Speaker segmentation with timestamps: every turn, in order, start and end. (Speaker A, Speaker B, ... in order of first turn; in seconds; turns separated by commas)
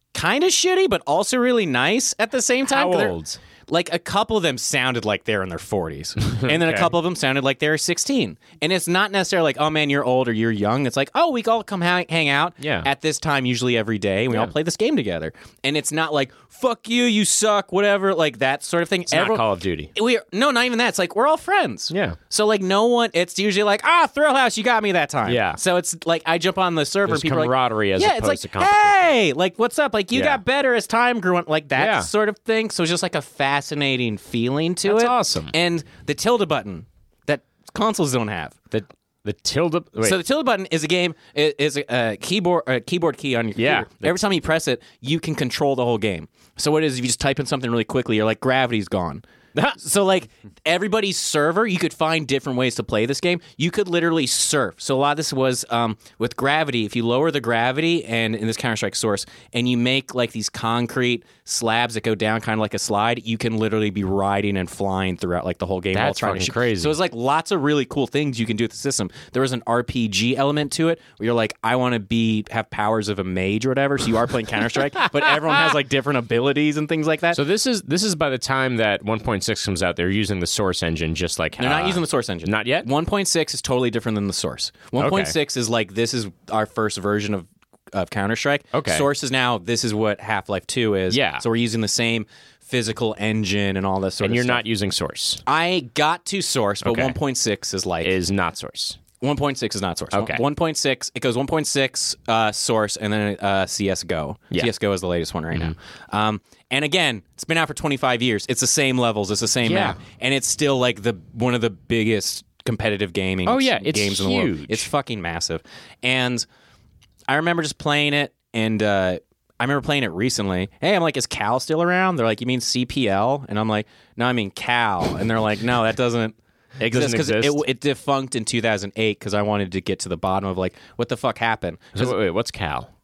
Speaker A: 0.1-3.1, Speaker B: 2.7-3.4, Speaker A: 3.7-38.5, Speaker B: 6.3-6.9, Speaker B: 12.6-12.9, Speaker B: 19.1-19.9, Speaker B: 21.9-22.2, Speaker B: 25.2-25.6, Speaker B: 27.1-29.1, Speaker B: 30.1-30.4, Speaker B: 31.8-32.1, Speaker B: 34.9-35.5, Speaker B: 38.7-40.2, Speaker A: 40.0-49.2, Speaker B: 43.6-44.2, Speaker A: 49.8-77.4, Speaker B: 65.9-67.0, Speaker B: 77.3-82.9, Speaker A: 81.6-94.6, Speaker B: 85.0-85.3, Speaker B: 88.7-89.1, Speaker B: 91.1-91.4, Speaker B: 94.2-95.4, Speaker A: 95.5-98.1, Speaker B: 96.8-97.2, Speaker B: 98.0-99.0, Speaker A: 99.2-116.5, Speaker B: 100.1-100.4, Speaker B: 109.6-110.0, Speaker B: 113.5-114.9, Speaker A: 117.3-132.1, Speaker B: 126.8-127.6, Speaker B: 131.9-132.9